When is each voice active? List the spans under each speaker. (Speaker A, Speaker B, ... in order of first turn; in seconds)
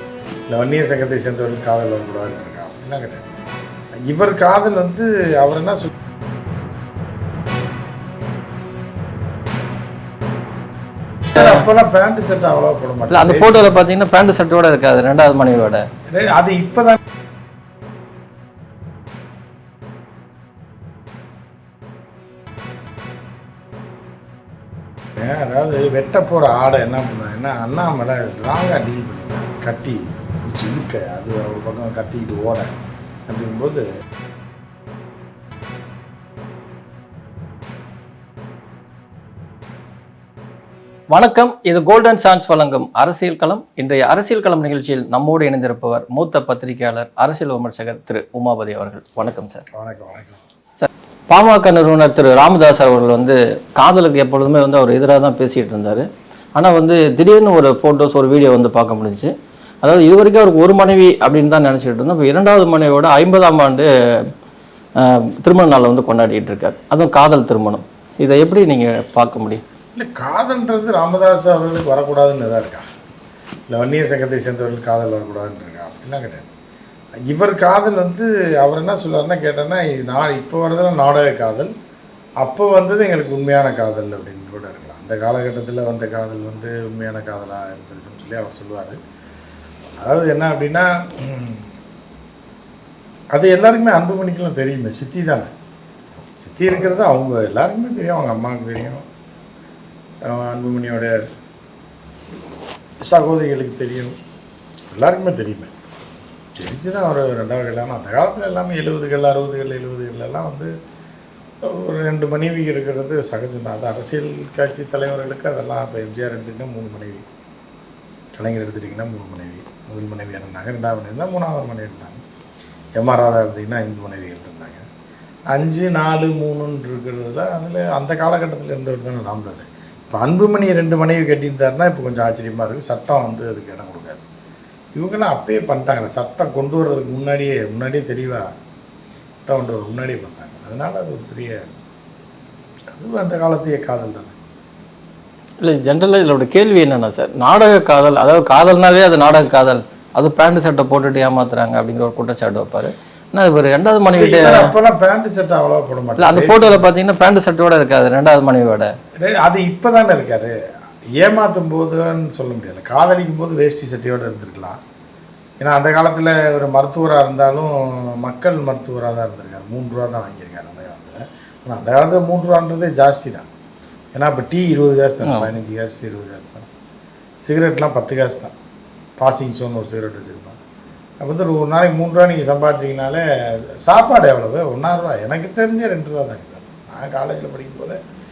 Speaker A: 0.5-3.2, 4.1-5.9, 11.3-13.7, 16.1-17.0, 25.2-32.7, 33.3-33.9, 49.7-50.4, 70.0-72.8, 73.7-76.5, 77.3-81.7, 82.4-89.0, 90.0-91.7, 93.3-95.5, 96.4-99.0, 100.3-101.1, 103.0-104.2, 104.9-105.7, 106.6-110.7, 111.6-117.2, 118.3-122.2, 123.0-124.8, 125.5-134.2, 135.0-138.5, 139.5-141.8, 142.9-144.3, 154.1-156.8, 159.2-160.6, 161.2-164.8, 165.6-173.5, 174.1-176.7, 177.4-178.5, 179.2-180.6, 181.2-183.2, 183.8-188.0
Speaker B: 13.1-15.8, 41.1-49.6, 50.8-56.0, 56.6-59.3, 59.8-64.3, 65.0-69.6, 145.6-154.7, 156.2-158.9, 175.2-175.5